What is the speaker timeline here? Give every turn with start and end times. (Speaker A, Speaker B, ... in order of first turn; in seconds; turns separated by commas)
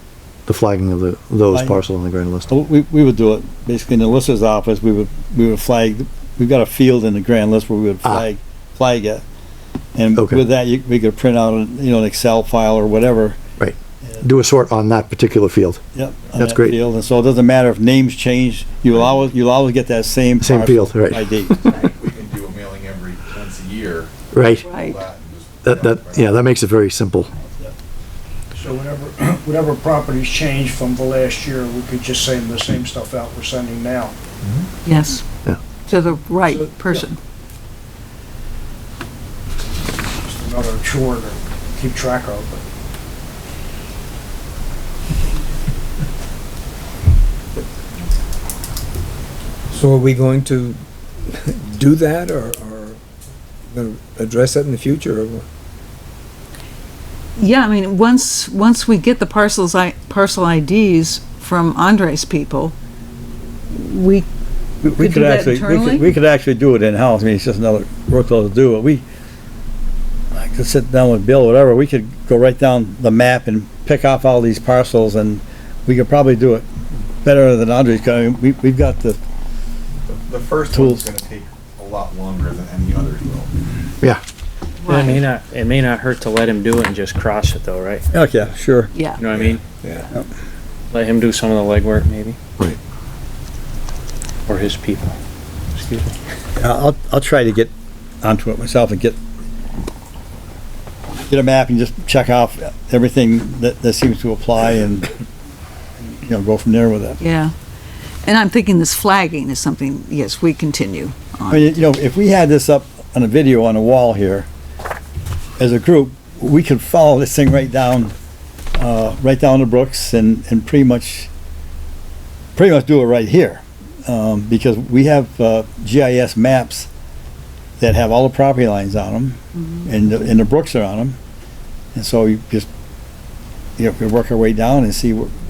Speaker A: 0.5-2.5, Speaker B: 1.5-1.8, Speaker B: 2.5-9.2, Speaker B: 9.9-13.4, Speaker A: 10.2-10.4, Speaker A: 13.6-15.8, Speaker B: 15.9-21.7, Speaker A: 16.4-16.8, Speaker A: 20.4-21.8, Speaker C: 21.9-26.4, Speaker A: 24.3-24.6, Speaker D: 24.6-25.0, Speaker A: 25.6-27.3, Speaker E: 28.5-34.2, Speaker D: 34.8-35.2, Speaker D: 35.9-37.2, Speaker E: 36.5-37.0, Speaker E: 40.0-42.6, Speaker F: 49.7-53.0, Speaker F: 53.7-55.5, Speaker D: 57.4-62.8, Speaker D: 63.7-64.3, Speaker B: 64.8-69.0, Speaker D: 64.8-66.1, Speaker B: 70.3-76.7, Speaker B: 77.2-79.2, Speaker C: 80.1-83.5, Speaker B: 80.7-81.0, Speaker D: 84.8-85.2, Speaker G: 84.9-88.0, Speaker B: 88.1-88.9, Speaker D: 88.9-89.2, Speaker G: 89.2-89.6, Speaker G: 90.9-92.4, Speaker G: 94.5-95.2, Speaker G: 95.7-96.1, Speaker B: 96.5-97.7, Speaker B: 98.2-99.2, Speaker B: 101.3-105.1, Speaker B: 106.0-107.2, Speaker D: 107.2-107.5, Speaker D: 108.2-111.8, Speaker B: 111.5-114.5, Speaker B: 115.6-118.1, Speaker B: 118.8-121.3, Speaker B: 122.5-126.9, Speaker B: 127.8-131.2, Speaker B: 131.9-132.7, Speaker B: 133.8-135.3